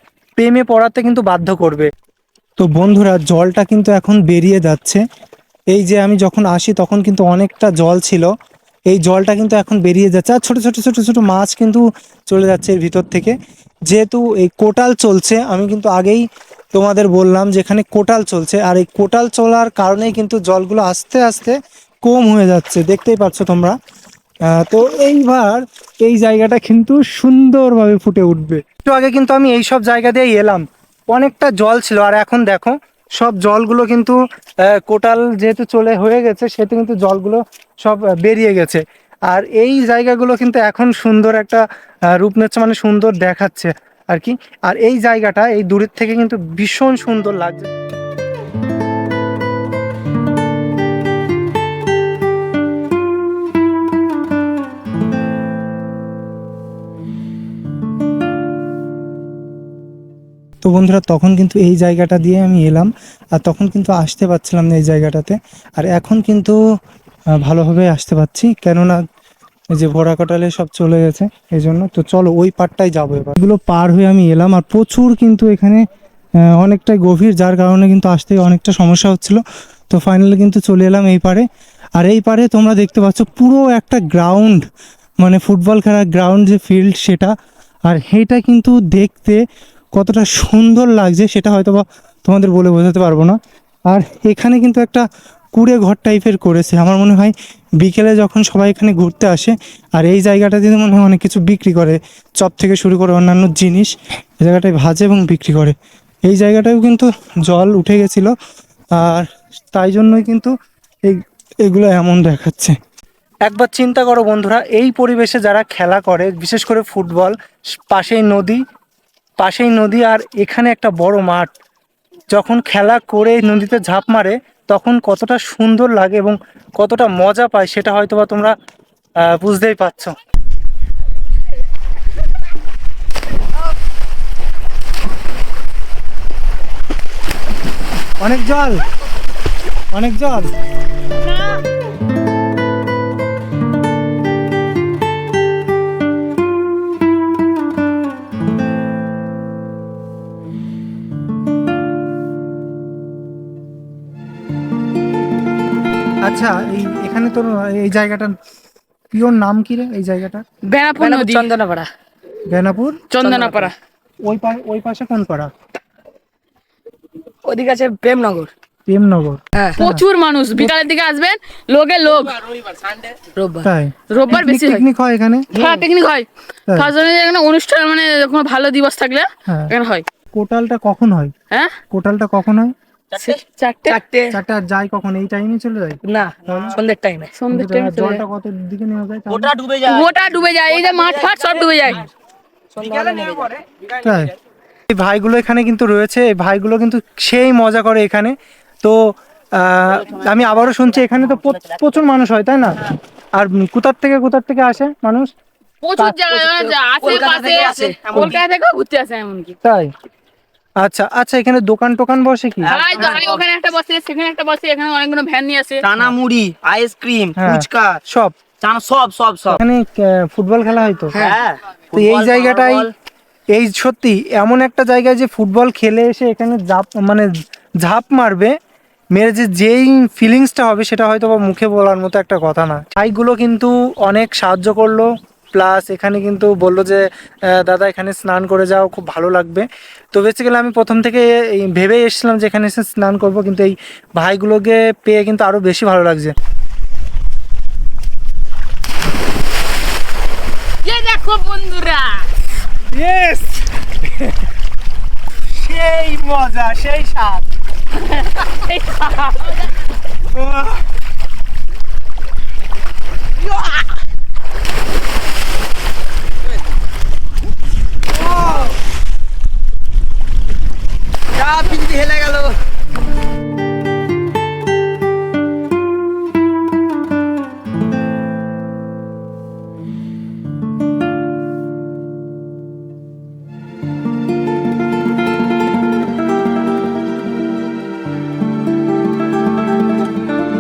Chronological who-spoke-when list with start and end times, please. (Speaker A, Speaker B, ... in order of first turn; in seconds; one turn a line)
Speaker A: 0.4-1.9
Speaker A: 2.6-5.0
Speaker A: 5.7-8.3
Speaker A: 8.9-13.4
Speaker A: 13.9-23.8
Speaker A: 24.4-47.7
Speaker A: 60.6-66.6
Speaker A: 67.4-69.0
Speaker A: 69.7-75.8
Speaker A: 76.4-81.5
Speaker A: 82.0-84.7
Speaker A: 85.2-87.3
Speaker A: 87.9-89.4
Speaker A: 89.9-108.3
Speaker A: 108.9-110.5
Speaker A: 111.1-112.8
Speaker A: 113.4-118.6
Speaker A: 119.4-121.5
Speaker A: 122.3-128.6
Speaker A: 129.2-130.1
Speaker A: 138.2-138.8
Speaker A: 139.9-140.5
Speaker A: 156.2-158.4
Speaker A: 159.1-160.4
Speaker B: 160.7-161.5
Speaker C: 161.0-161.9
Speaker A: 162.5-163.0
Speaker B: 163.1-163.7
Speaker C: 163.2-163.7
Speaker A: 164.2-165.5
Speaker C: 167.4-168.5
Speaker A: 168.9-170.0
Speaker C: 169.5-169.8
Speaker B: 169.8-172.7
Speaker C: 173.3-173.7
Speaker A: 173.6-175.5
Speaker B: 174.1-174.8
Speaker C: 175.5-175.9
Speaker B: 175.6-180.1
Speaker A: 179.5-179.7
Speaker A: 180.3-181.3
Speaker B: 181.5-181.8
Speaker A: 181.9-182.7
Speaker C: 183.1-184.4
Speaker B: 183.2-184.0
Speaker A: 184.3-186.8
Speaker C: 186.0-187.4
Speaker B: 187.4-188.2
Speaker A: 187.5-189.5
Speaker C: 189.3-192.1
Speaker B: 189.9-192.1
Speaker C: 192.7-193.8
Speaker A: 194.0-194.3
Speaker A: 194.9-202.9
Speaker A: 203.4-205.3
Speaker B: 205.8-209.6
Speaker C: 206.0-208.4
Speaker A: 209.6-209.9
Speaker A: 210.8-212.7
Speaker C: 212.6-213.4
Speaker B: 212.7-215.9
Speaker C: 215.8-218.0
Speaker A: 217.4-218.4
Speaker C: 218.6-219.6
Speaker A: 219.5-221.3
Speaker C: 221.1-222.9
Speaker A: 221.9-222.9
Speaker A: 223.5-228.6
Speaker A: 229.1-246.3
Speaker B: 250.8-252.2
Speaker A: 252.9-254.4
Speaker A: 255.5-257.4
Speaker B: 257.9-259.7
Speaker A: 260.4-260.9
Speaker C: 268.3-268.7
Speaker C: 271.3-272.6